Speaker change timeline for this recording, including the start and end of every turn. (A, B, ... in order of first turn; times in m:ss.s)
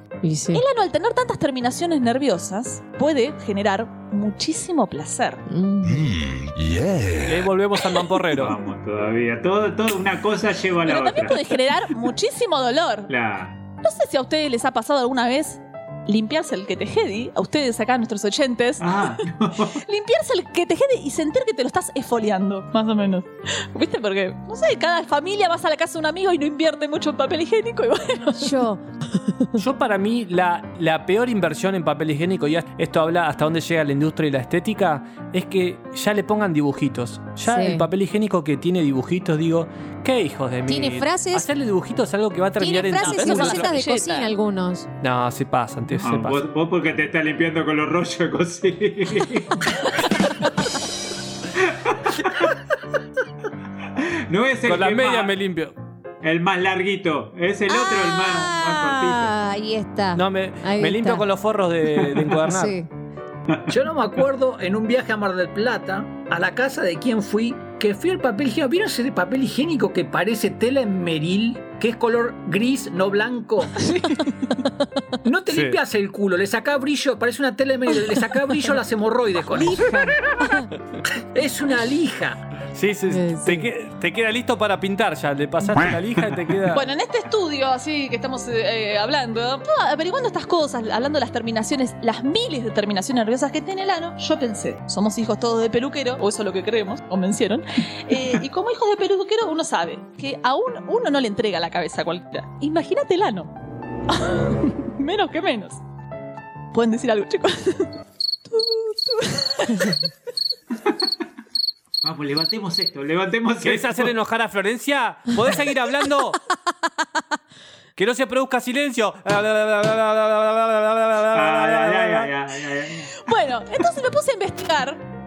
0:00.2-0:00.6 A
0:00.5-0:05.4 B
0:05.5-0:06.2 A
0:07.0-0:08.6 C
0:08.3-0:11.5 D
0:10.8-0:13.1 B
0:13.1-0:13.6 D
0:13.8-0:19.2 B
0:18.8-0:19.8 D
0:19.8-0:28.6 B
0:28.4-0:29.6 A
0:29.6-0:43.7 C
0:37.5-0:37.9 A
0:40.7-0:41.5 A
0:42.6-0:44.9 A
0:42.9-0:44.3 B
0:45.0-0:46.4 C
0:46.0-0:49.9 D
0:51.6-0:52.5 D
0:54.0-0:55.3 D
0:54.6-0:55.7 C
0:56.2-0:59.3 D
0:57.7-1:01.2 A
1:00.1-1:02.8 C
1:02.4-1:02.9 A
1:03.7-1:13.8 E
1:13.8-1:14.3 B
1:15.2-1:20.0 E
1:15.5-1:15.8 C
1:19.5-1:20.7 A
1:21.1-1:22.4 E
1:22.7-1:26.8 C
1:23.1-1:23.7 A
1:26.7-1:43.5 B
1:44.1-1:45.8 B
1:46.7-1:47.9 B
1:48.5-1:50.1 B
1:52.0-1:54.1 D
1:53.6-1:56.4 C
1:58.0-2:02.3 C
2:01.3-2:03.3 D
2:03.1-2:05.0 B